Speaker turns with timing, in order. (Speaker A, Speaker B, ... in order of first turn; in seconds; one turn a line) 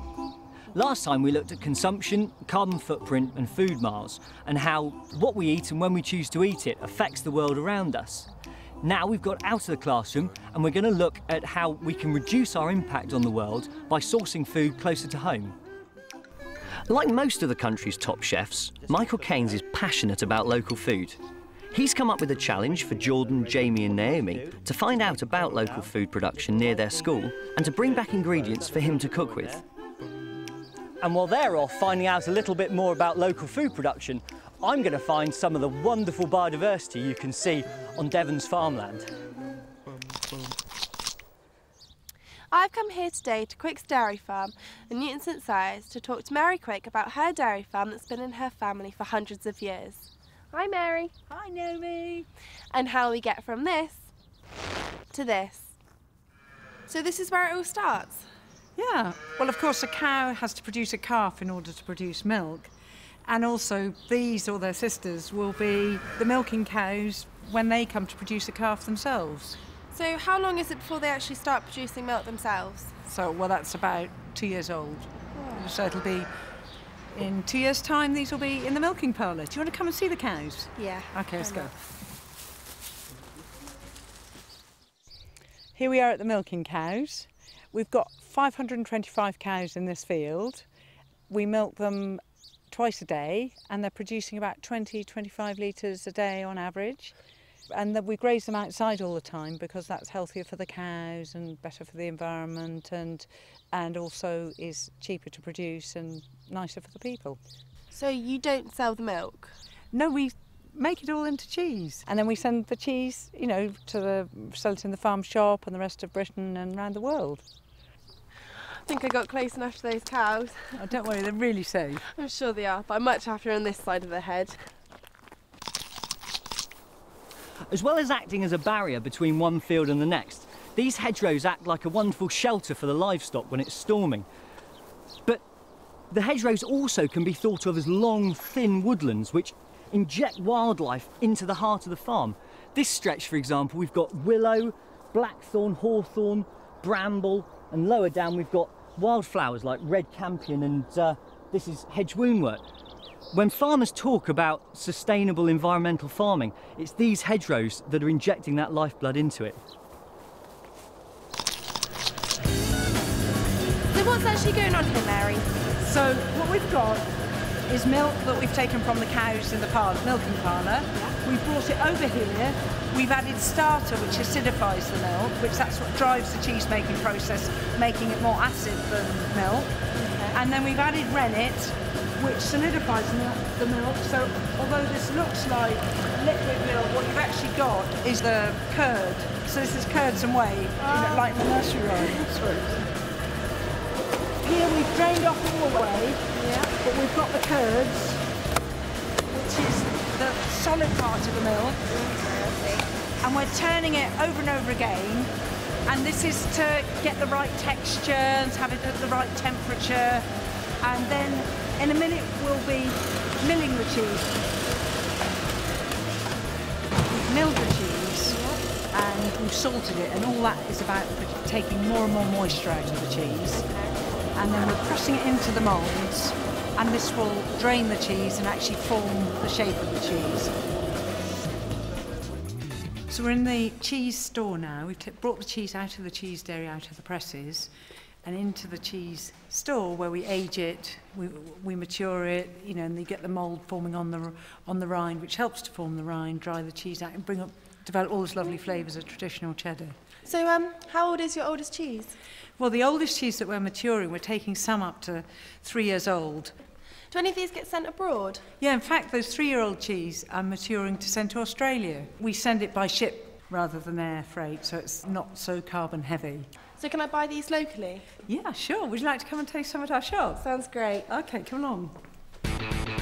Speaker A: 0.7-8.3
Speaker A: 8.8-15.6
Speaker A: 16.9-21.2
Speaker A: 21.7-29.6
Speaker A: 31.0-39.1
Speaker B: 42.5-51.1
Speaker C: 51.3-52.3
Speaker B: 52.7-54.1
Speaker B: 55.1-55.7
Speaker B: 56.9-58.3
Speaker C: 58.8-62.7
Speaker C: 63.2-69.6
Speaker B: 69.9-72.9
Speaker C: 73.0-76.3
Speaker B: 75.3-75.7
Speaker C: 77.1-81.7
Speaker B: 80.8-81.7
Speaker C: 85.7-90.7
Speaker C: 91.3-97.1
Speaker C: 97.7-107.4
Speaker B: 107.9-109.5
Speaker C: 109.9-117.4
Speaker B: 118.8-120.7
Speaker C: 120.7-122.1
Speaker B: 122.1-124.6
Speaker A: 127.7-134.3
Speaker A: 136.1-152.6
Speaker A: 153.3-159.6
Speaker B: 163.9-165.8
Speaker C: 165.8-167.1
Speaker C: 167.7-179.7
Speaker B: 179.9-180.4
Speaker C: 180.3-192.9
Speaker B: 190.8-192.2
Speaker C: 194.4-196.2
Speaker B: 196.3-196.7
Speaker C: 196.8-198.2
Speaker C: 199.3-201.8
Speaker B: 201.9-202.9
Speaker C: 203.2-205.3
Speaker C: 205.9-210.2
Speaker C: 210.8-214.3
Speaker C: 217.1-223.7
Speaker B: 218.3-218.6
Speaker B: 223.5-224.2
Speaker C: 224.3-230.5
Speaker C: 233.1-237.7
Speaker C: 238.2-250.0
Speaker B: 250.2-252.2
Speaker C: 252.6-256.5
Speaker B: 257.1-258.4
Speaker C: 258.6-266.5
Speaker B: 266.8-268.1
Speaker C: 268.2-270.5
Speaker B: 270.4-271.1
Speaker C: 271.1-271.9